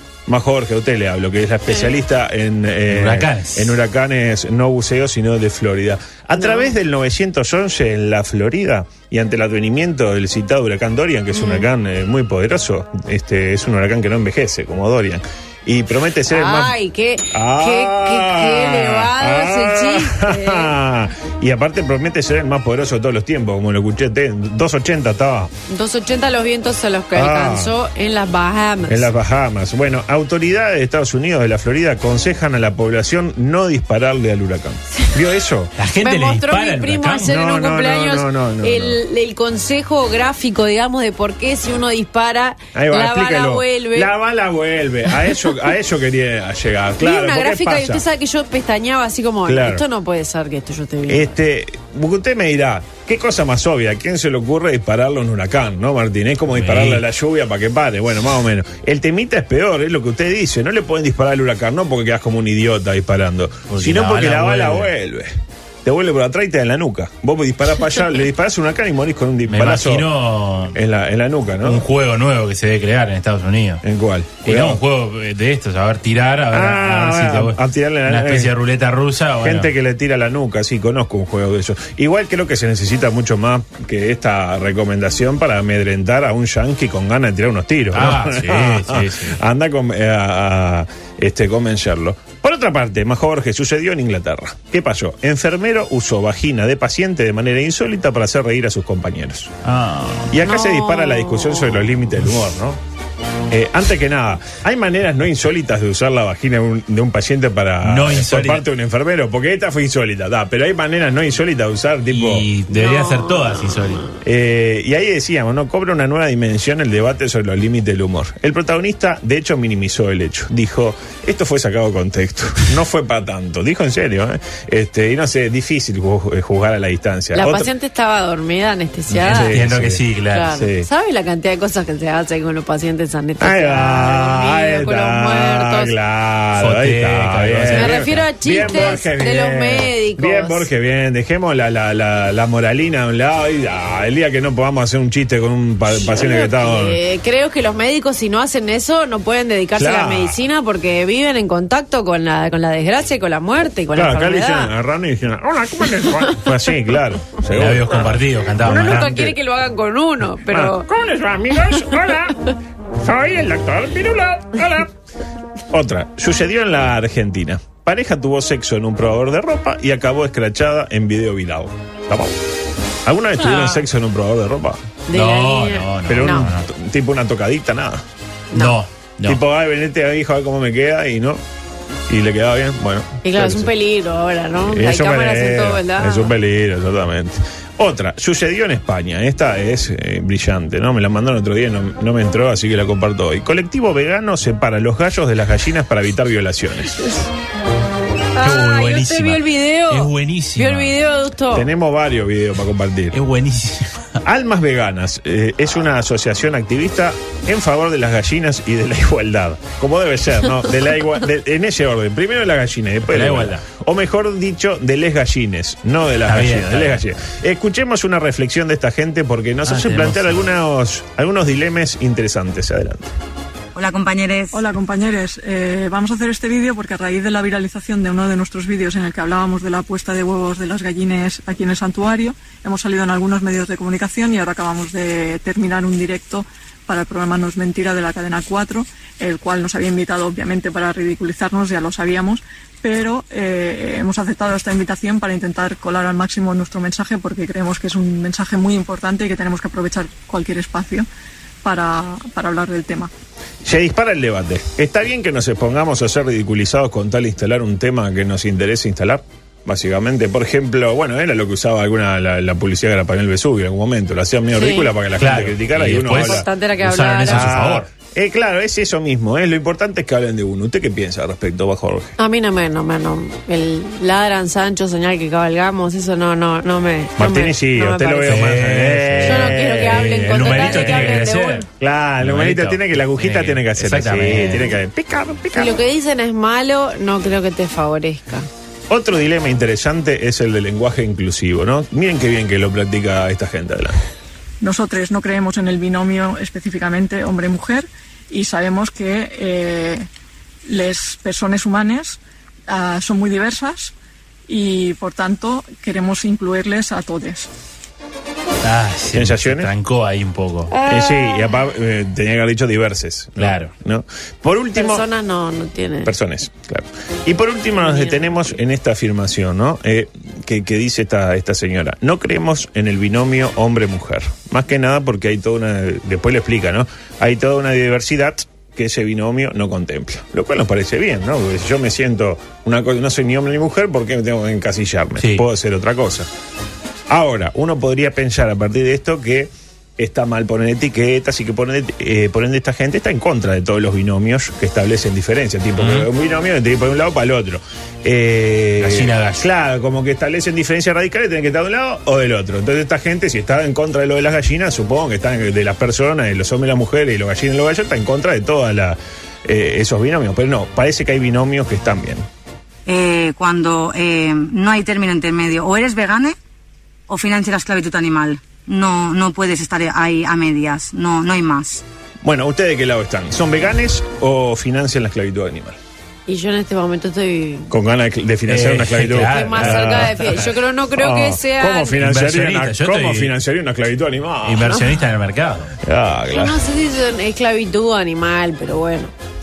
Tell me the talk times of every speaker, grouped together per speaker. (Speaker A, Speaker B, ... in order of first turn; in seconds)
Speaker A: 0.3-16.8, 17.3-25.5, 27.1-27.8, 28.9-35.7, 37.2-39.0, 42.7-48.0, 49.5-49.8, 51.1-65.3, 65.8-70.1, 70.7-71.8, 73.8-74.8, 76.5-78.5, 79.4-99.5, 100.3-102.8, 103.5-112.5, 114.2-127.7, 129.1-130.9, 133.4-147.0, 149.8-150.4, 154.0-159.3, 160.5-164.9, 165.7-172.3, 173.0-174.8, 176.1-178.0, 179.2-181.4, 182.1-183.7, 184.6-197.1, 201.5-203.2, 204.2-223.1, 253.6-266.5, 267.2-272.1, 277.2-281.2, 281.8-285.8, 288.9-294.0, 309.1-309.7, 310.8-315.0, 316.0-336.3, 337.1-362.3, 372.2-375.8, 377.7-384.8, 385.8-386.6
Speaker B: 2.9-3.8, 35.8-37.3, 56.5-57.0, 63.7-64.9, 69.5-70.8, 71.6-73.8, 74.4-79.7, 87.9-89.4, 99.7-100.3, 107.8-108.6, 112.1-114.1, 129.3-130.5, 136.6-138.3, 157.5-159.2, 173.4-173.8, 175.1-176.7, 178.5-179.4, 198.4-200.9, 203.1-204.0, 213.1-213.7, 216.3-217.0, 219.7-220.4, 265.2-267.9, 278.2-281.7, 282.2-284.8, 308.6-310.7, 313.4-313.7, 335.2-335.4, 345.8-346.1, 348.8-349.4, 378.5-380.5, 382.0-383.3, 384.4-385.7
Speaker C: 6.4-6.7, 11.3-11.7, 16.3-20.7, 25.7-29.1, 36.0-44.1, 47.0-51.3, 100.4-101.9, 112.7-114.2, 127.3-129.5, 130.3-135.9, 137.7-140.7, 145.9-154.7, 158.6-160.9, 175.1-176.4, 178.5-178.8, 183.2-186.3, 198.3-201.7, 264.5-264.9, 266.1-267.5, 272.2-278.5, 279.2-281.6, 285.5-288.5, 310.7-311.6, 314.8-316.1, 317.8-318.6, 376.3-377.7, 379.3-382.0, 386.3-389.1
Speaker D: 223.8-224.6, 362.9-366.4, 367.1-371.8
Speaker E: 224.5-251.1, 251.6-253.1, 294.6-300.1, 300.6-303.9, 304.5-307.5